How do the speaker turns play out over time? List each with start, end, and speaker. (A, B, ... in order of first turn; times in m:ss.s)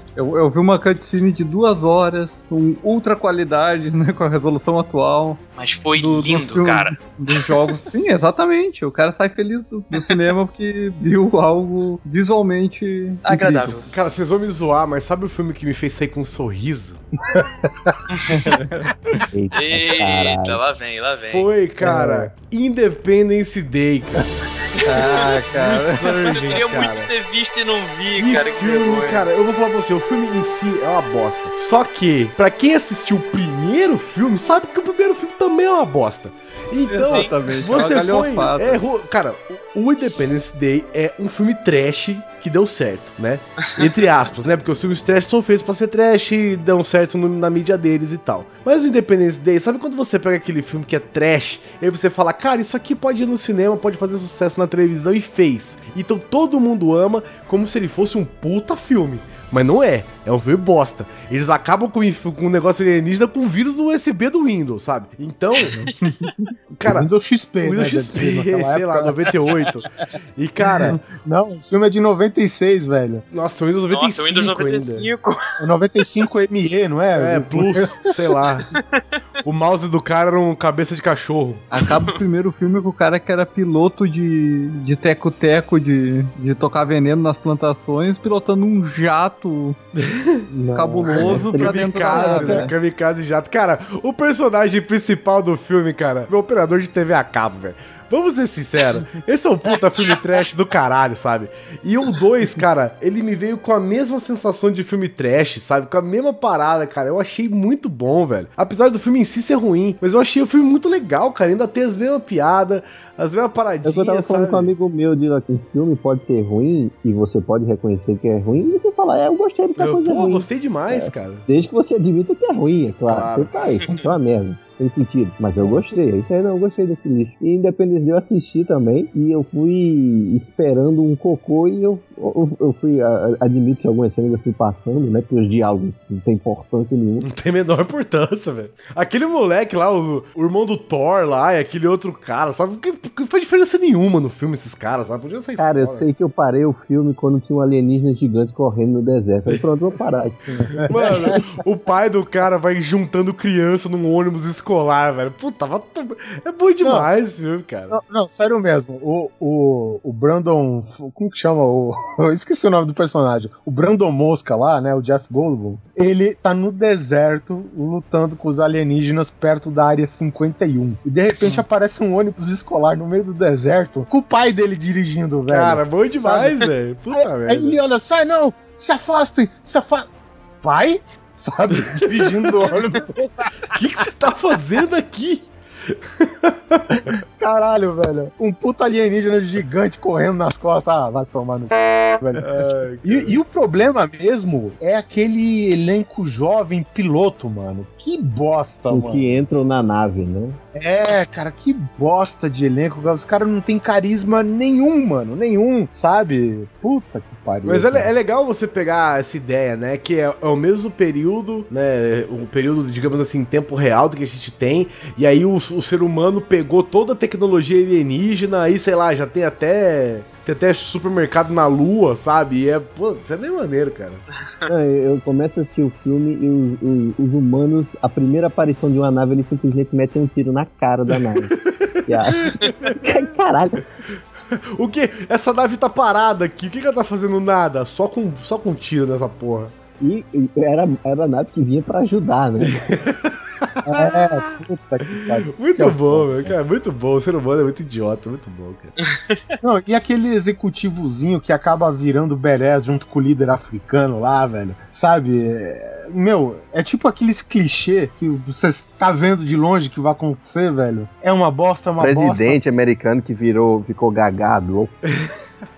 0:00.2-0:05.4 A
0:05.6-0:07.0 B
0:06.0-0:13.8 A
0:13.2-0:13.8 B
0:13.9-0:17.0 C
0:17.2-0:18.0 D
0:18.1-0:18.4 B
0:18.3-0:19.2 A
0:19.3-0:20.6 E
0:19.5-0:21.5 B
0:21.2-0:24.2 C
0:21.8-0:22.3 D
0:24.8-0:26.3 A
0:24.9-0:25.4 B
0:25.5-0:27.1 C
0:26.3-0:29.3 B
0:28.2-1:05.8 C
0:36.9-0:38.8 A
0:37.1-0:37.8 B
1:06.0-1:06.5 A
1:06.7-1:11.0 C
1:06.8-1:09.3 D
1:10.6-1:13.2 D
1:13.3-1:15.1 C
1:13.9-1:15.6 B
1:15.6-1:18.0 D
1:17.2-1:18.7 C
1:18.7-1:19.0 B
1:19.4-1:21.6 C
1:21.7-1:29.8 A
1:30.0-1:30.5 C
1:30.5-1:31.5 D
1:30.7-1:32.7 A
1:31.2-1:32.7 E
1:31.4-1:54.7 C
1:53.8-2:17.3 E
1:59.8-2:01.4 C
2:03.1-2:03.6 C
2:17.2-2:26.0 C
2:25.6-2:30.8 E
2:30.5-2:31.4 D
2:30.9-2:37.9 C
2:36.8-2:37.1 D
2:37.9-3:00.1 D
2:55.5-2:57.8 C
3:00.6-3:03.5 D
3:02.0-3:02.7 C
3:03.7-3:07.0 C
3:07.0-3:19.4 D
3:12.4-3:13.4 C
3:18.9-3:20.6 E
3:20.7-3:28.1 D
3:27.6-3:44.2 C
3:44.7-3:51.5 E
3:51.6-3:52.9 C
3:52.0-3:53.8 E
3:54.5-3:59.7 C
4:00.0-4:02.9 E
4:02.6-4:04.6 C
4:03.8-4:06.5 D
4:05.2-4:08.9 C
4:09.0-4:09.4 B
4:09.6-4:22.9 D
4:22.0-4:24.9 E
4:25.0-4:25.3 C